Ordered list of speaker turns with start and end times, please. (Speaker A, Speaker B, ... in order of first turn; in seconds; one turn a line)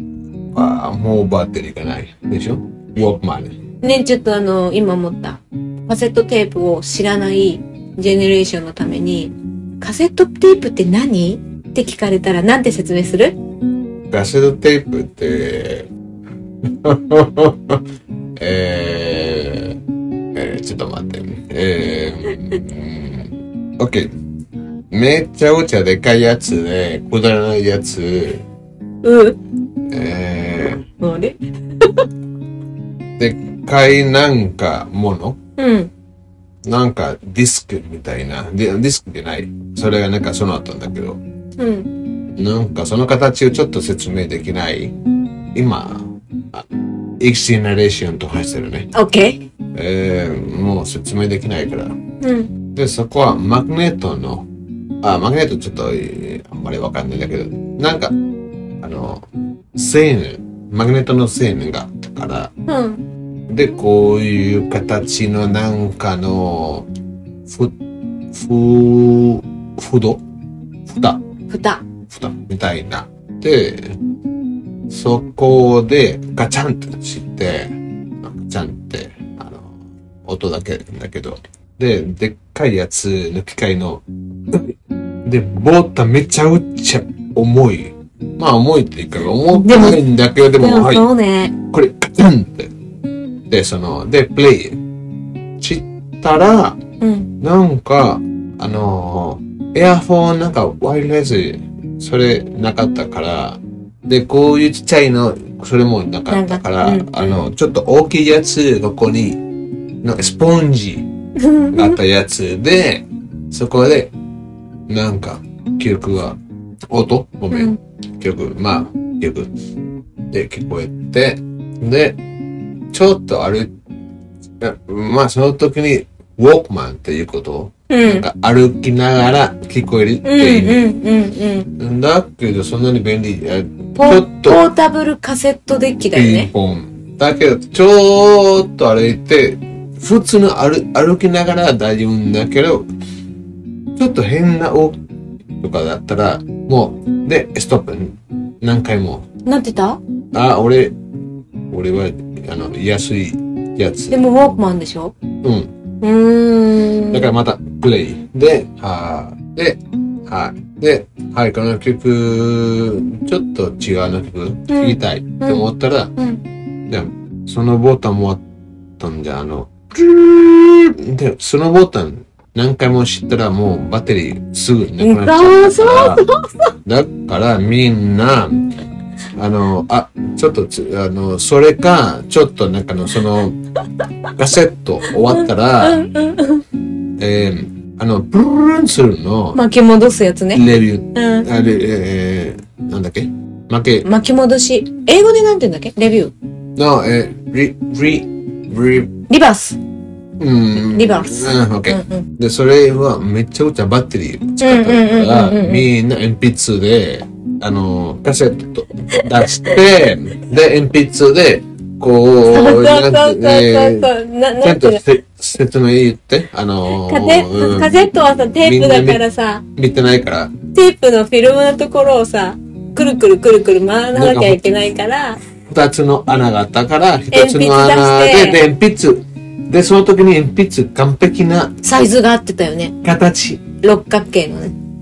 Speaker A: 0.5-3.6
Speaker B: 3.8-13.3
Speaker A: 14.1-15.9
Speaker A: 16.7-17.8
Speaker A: 18.4-19.8
Speaker A: 20.3-24.1
Speaker A: 24.9-28.4
Speaker B: 29.0-29.4
Speaker A: 29.9-30.8
Speaker B: 31.0-32.1
Speaker A: 33.2-35.4
Speaker B: 35.6-35.9
Speaker A: 36.6-41.2
Speaker B: 41.6-41.9
Speaker A: 42.4-44.9
Speaker A: 45.5-46.7
Speaker A: 47.2-48.9
Speaker B: 48.9-49.4
Speaker A: 49.7-52.0
Speaker B: 52.2-52.5
Speaker A: 52.7-54.5
Speaker A: 55.0-58.1
Speaker A: 58.8-59.2
Speaker A: 59.8-62.5
Speaker B: 62.7-63.0
Speaker A: 63.5-66.9
Speaker A: 67.5-67.7
Speaker A: 68.3-70.2
Speaker A: 70.9-71.2
Speaker B: 71.5-71.8
Speaker A: 72.1-74.0
Speaker A: 74.9-79.7
Speaker A: 80.2-84.7
Speaker A: 85.2-91.0
Speaker B: 89.5-90.0
Speaker B: 90.6-91.5
Speaker A: 91.7-92.7
Speaker A: 93.5-94.8
Speaker A: 95.6-96.8
Speaker B: 97.0-97.3
Speaker A: 97.4-109.4
Speaker B: 106.3-107.1
Speaker A: 110.0-111.1
Speaker B: 111.4-112.0
Speaker A: 111.7-114.1
Speaker A: 114.9-116.4
Speaker A: 116.9-119.5
Speaker B: 117.5-117.8
Speaker A: 120.3-122.2
Speaker A: 122.9-123.7
Speaker A: 124.6-130.8
Speaker B: 127.9-128.2
Speaker B: 130.2-131.7
Speaker A: 131.8-134.6
Speaker B: 133.9-136.5
Speaker A: 136.1-142.9
Speaker A: 144.0-145.0
Speaker A: 145.6-149.2
Speaker B: 149.4-150.0
Speaker A: 150.3-150.9
Speaker A: 151.7-154.2
Speaker B: 154.1-155.1
Speaker A: 155.4-155.7
Speaker B: 156.0-157.3
Speaker A: 157.1-166.1
Speaker B: 164.7-165.6
Speaker B: 166.2-166.4
Speaker A: 166.9-168.4
Speaker A: 169.0-176.2
Speaker B: 175.0-176.4
Speaker A: 176.8-178.7
Speaker A: 179.3-183.6
Speaker A: 184.3-186.0
Speaker B: 185.1-186.6
Speaker A: 187.2-189.6
Speaker B: 189.5-191.5
Speaker A: 190.5-194.1
Speaker B: 194.0-196.3
Speaker A: 196.8-199.1
Speaker B: 199.3-199.8
Speaker A: 200.4-214.1
Speaker B: 200.9-202.2
Speaker B: 204.6-205.8
Speaker B: 209.1-209.8
Speaker B: 212.4-215.0
Speaker A: 214.6-219.2
Speaker B: 216.9-219.6
Speaker A: 219.8-220.5
Speaker B: 220.7-225.4
Speaker A: 224.1-224.6
Speaker A: 225.7-231.7
Speaker B: 227.3-228.6
Speaker B: 231.8-232.9
Speaker A: 233.0-233.7
Speaker B: 233.8-234.7